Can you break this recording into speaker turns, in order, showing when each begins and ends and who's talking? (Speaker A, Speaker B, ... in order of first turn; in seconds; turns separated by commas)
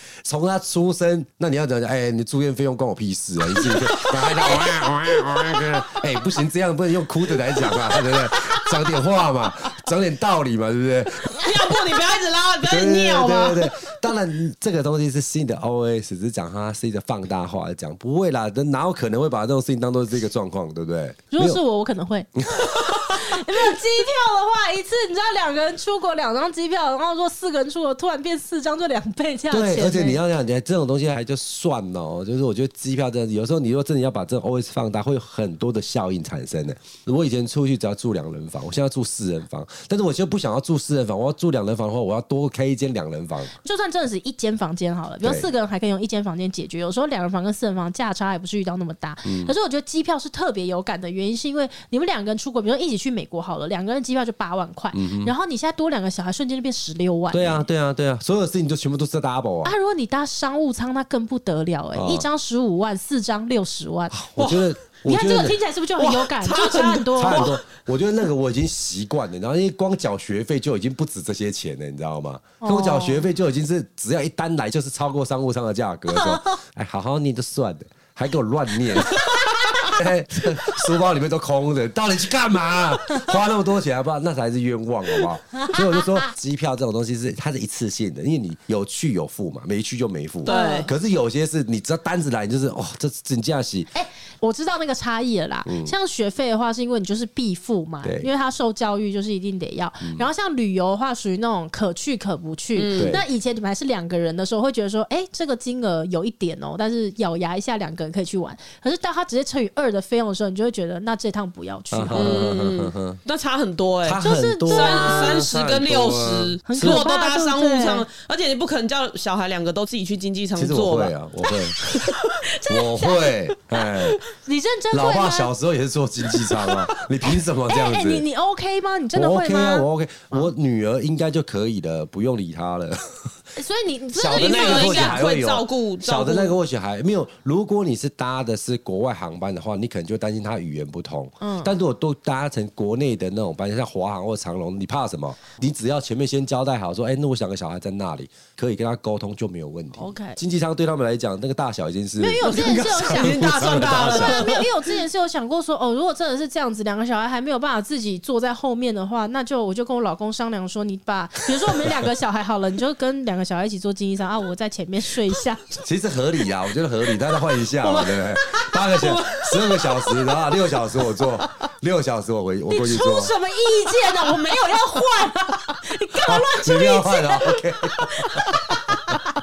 Speaker A: 0.2-11.8, Speaker B: 3.8-4.2, Speaker B: 11.4-13.9, Speaker A: 12.6-21.6, Speaker C: 21.3-30.2, Speaker A: 22.6-23.4, Speaker A: 29.5-43.5, Speaker C: 43.6-57.7, Speaker A: 45.2-45.5, Speaker A: 49.2-49.5, Speaker A: 54.9-55.3, Speaker A: 57.3-59.8, Speaker C: 59.6-64.2, Speaker A: 61.9-62.3, Speaker A: 64.1-65.6, Speaker B: 64.4-64.7, Speaker C: 65.0-67.5, Speaker B: 66.0-67.6, Speaker A: 67.1-93.9, Speaker C: 72.6-73.3, Speaker C: 76.1-76.6, Speaker C: 79.1-80.0, Speaker C: 85.5-86.3, Speaker B: 90.5-90.9, Speaker C: 90.5-90.9, Speaker C: 93.9-112.5, Speaker A: 95.7-95.9, Speaker A: 100.0-100.3, Speaker B: 102.8-103.2, Speaker A: 103.0-103.2, Speaker A: 111.9-113.2, Speaker B: 112.1-121.1, Speaker A: 114.0-117.0, Speaker C: 114.2-115.5, Speaker C: 116.7-118.1, Speaker A: 120.5-121.8, Speaker C: 121.8-125.5, Speaker A: 122.7-124.2, Speaker A: 124.9-128.2, Speaker C: 126.4-126.7, Speaker C: 127.7-130.4, Speaker A: 129.1-133.3, Speaker C: 133.6-135.2, Speaker A: 134.2-154.5, Speaker B: 134.3-136.6, Speaker C: 141.4-141.7, Speaker C: 150.0-150.4, Speaker C: 152.2-165.8, Speaker B: 152.4-154.7, Speaker A: 165.8-173.3, Speaker B: 167.8-169.9, Speaker C: 172.7-179.2, Speaker B: 174.3-174.7, Speaker A: 176.2-179.2